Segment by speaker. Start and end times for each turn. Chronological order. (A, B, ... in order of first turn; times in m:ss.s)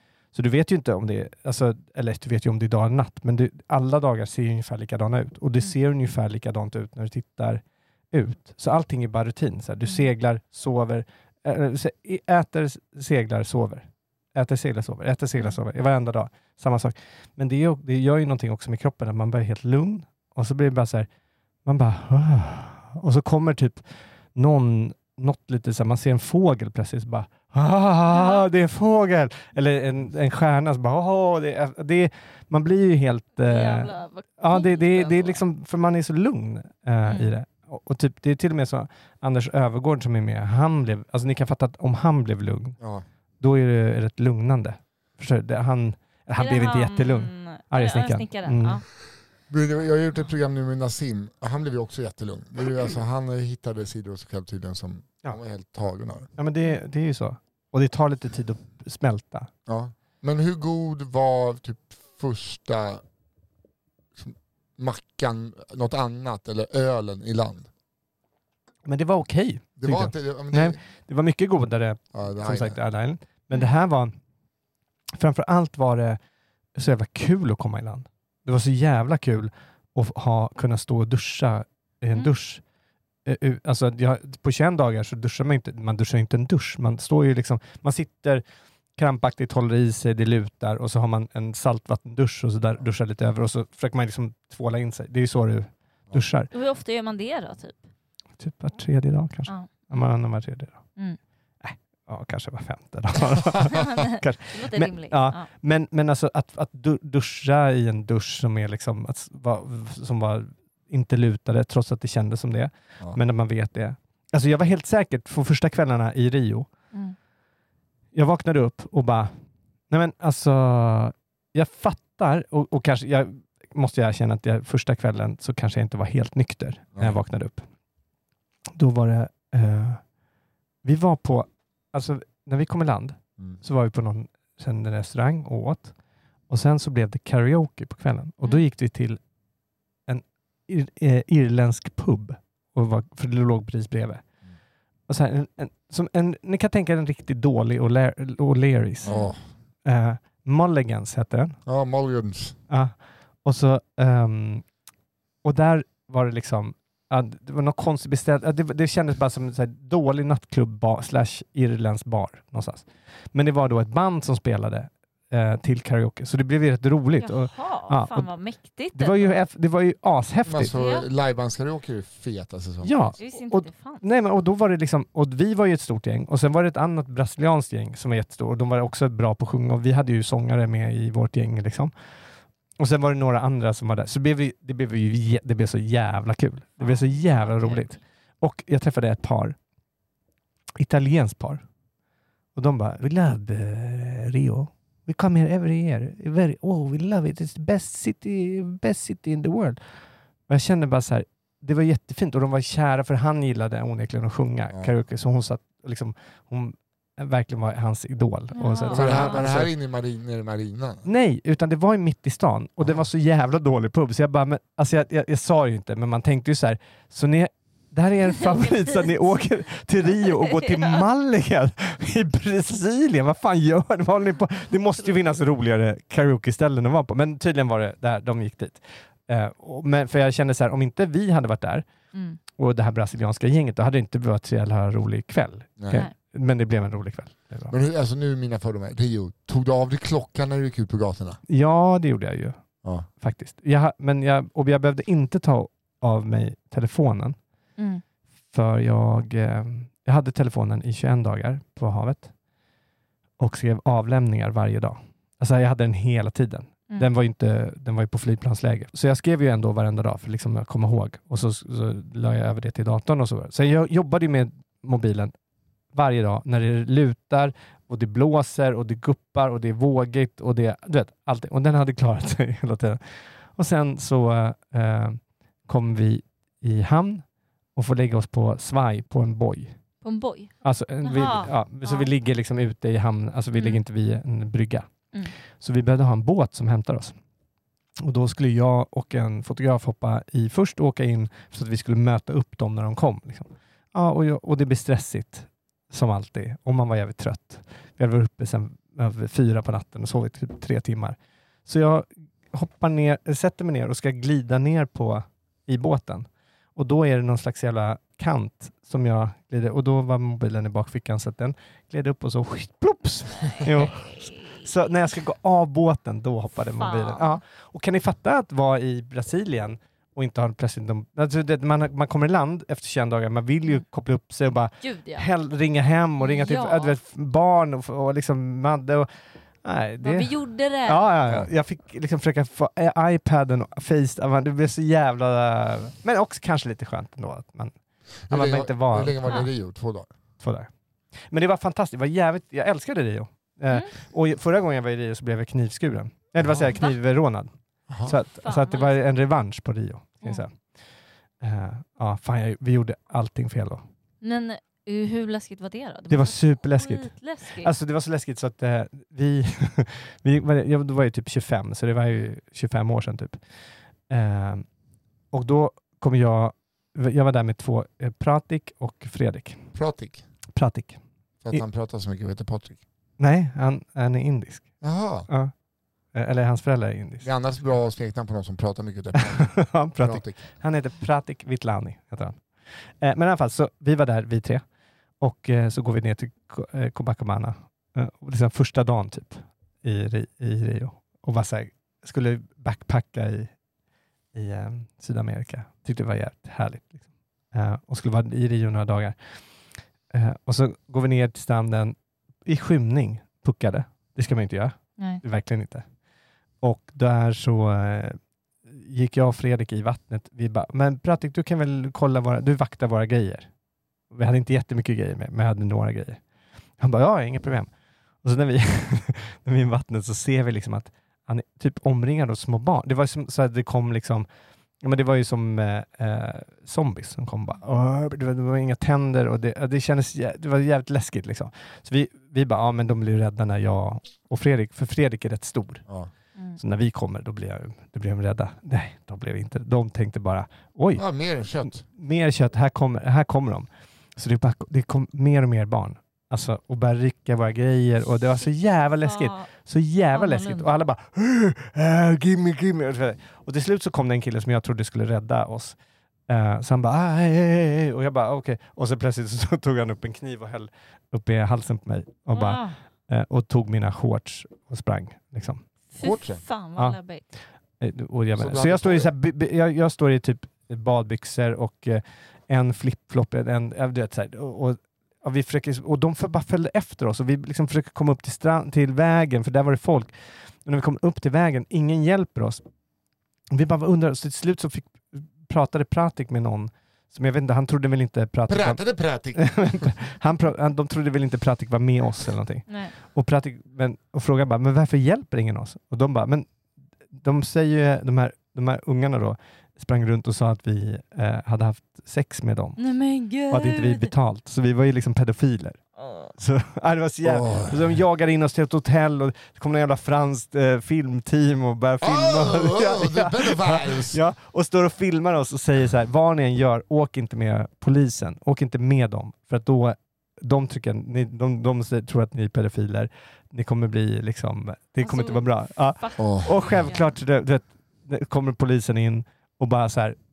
0:00.3-0:21.1 A
0:21.6-0:23.8 A
0:24.3-0:42.8 A
0:28.1-0:28.4 B
0:33.4-0:35.4 B
0:37.0-0:37.3 B
0:42.8-0:43.0 C
0:43.4-0:48.8 A
0:46.4-0:48.8 B
0:49.5-0:56.3 C
0:56.4-0:59.5 A
0:59.7-1:03.0 C
1:04.2-1:07.7 C
1:08.8-1:14.1 A
1:09.8-1:10.8 C
1:12.1-1:12.8 C
1:15.2-1:16.2 A
1:16.8-1:22.6 A
1:23.2-1:28.4 A
1:29.0-1:36.5 A
1:36.5-1:37.8 B
1:38.4-1:40.8 A
1:41.6-1:56.7 A
1:43.7-1:45.5 B
1:58.1-1:59.3 A
1:59.9-2:07.6 A
2:07.0-2:07.2 C
2:08.8-2:10.0 A
2:10.8-2:15.9 A
2:16.5-2:19.2 A
2:20.1-2:24.2 A
2:25.1-2:29.2 A
2:29.0-2:29.4 C
2:29.0-2:29.3 B
2:29.8-2:31.6 A
2:31.6-2:32.6 C
2:32.7-2:34.6 A
2:35.4-2:48.3 A
2:47.2-2:49.4 B
2:48.9-2:50.7 A
2:50.4-2:53.2 C
2:50.7-2:51.1 B
2:52.8-3:01.9 A
2:53.2-2:54.0 B
3:02.8-3:09.6 A
3:06.8-3:08.0 B
3:10.8-3:11.6 A
3:12.5-3:19.8 A
3:20.5-3:29.7 A
3:28.5-3:29.4 B
3:28.9-3:31.0 C
3:31.0-3:51.8 A
3:38.6-3:39.1 B
3:52.1-3:52.4 B
3:52.6-3:57.7 A
3:55.8-3:56.0 C
3:57.7-4:01.4 C
4:01.5-4:02.6 A
4:02.8-4:03.1 C
4:03.2-4:07.4 A
4:08.5-4:12.3 A
4:13.4-4:25.3 A
4:25.9-4:37.2 A
4:37.7-4:39.8 A
4:40.0-4:42.1 B
4:40.6-4:44.9 A
4:43.5-4:43.8 B
4:45.6-4:47.1 A
4:48.0-5:29.1 A
5:13.4-5:14.6 B
5:16.8-5:17.4 B
5:24.8-5:25.3 B
5:26.2-5:27.0 B
5:29.6-5:30.3 A
5:30.0-5:31.1 B
5:30.8-5:37.7 A
5:38.3-5:40.1 C
5:38.3-5:39.4 A
5:40.4-5:40.7 A
5:41.3-5:47.5 A
5:46.4-5:46.8 C
5:47.9-5:48.2 C
5:48.0-5:50.6 A
5:48.4-5:49.1 B
5:51.4-5:53.8 A
5:54.2-5:57.7 B
5:56.1-6:03.4 A
6:04.1-6:04.6 A
6:05.3-6:09.6 A
6:09.7-6:10.2 C
6:10.5-6:11.0 A
6:11.4-6:12.8 C
6:13.2-6:14.7 A
6:14.8-6:15.3 C
6:16.1-6:17.3 A
6:17.2-6:20.5 C
6:19.2-6:22.4 A
6:23.0-6:24.6 A
6:25.2-6:33.5 A
6:34.3-6:39.2 A
6:40.1-6:45.8 A
6:46.6-6:53.5 A
6:54.1-6:56.2 A
6:56.8-6:57.7 A
6:58.2-7:04.3 A
7:04.8-7:15.8 A
7:16.6-7:21.0 A
7:20.9-7:21.8 C
7:21.9-7:35.8 A
7:29.0-7:29.5 B
7:30.1-7:30.7 B
7:36.3-7:45.6 A
7:42.3-7:42.8 B
7:45.9-7:47.3 B
7:46.0-7:46.4 C
7:47.8-8:00.1 A
7:48.4-7:49.1 C
8:00.6-8:02.6 A
8:03.5-8:08.8 A
8:08.5-8:09.9 C
8:09.4-8:16.5 A
8:12.7-8:12.9 B
8:17.1-8:22.8 A
8:22.8-8:24.1 B
8:23.5-8:25.8 A
8:26.0-8:26.3 B
8:26.4-8:50.2 A
8:27.2-8:28.0 C
8:32.0-8:34.2 C
8:45.0-8:47.1 B
8:46.2-8:46.9 C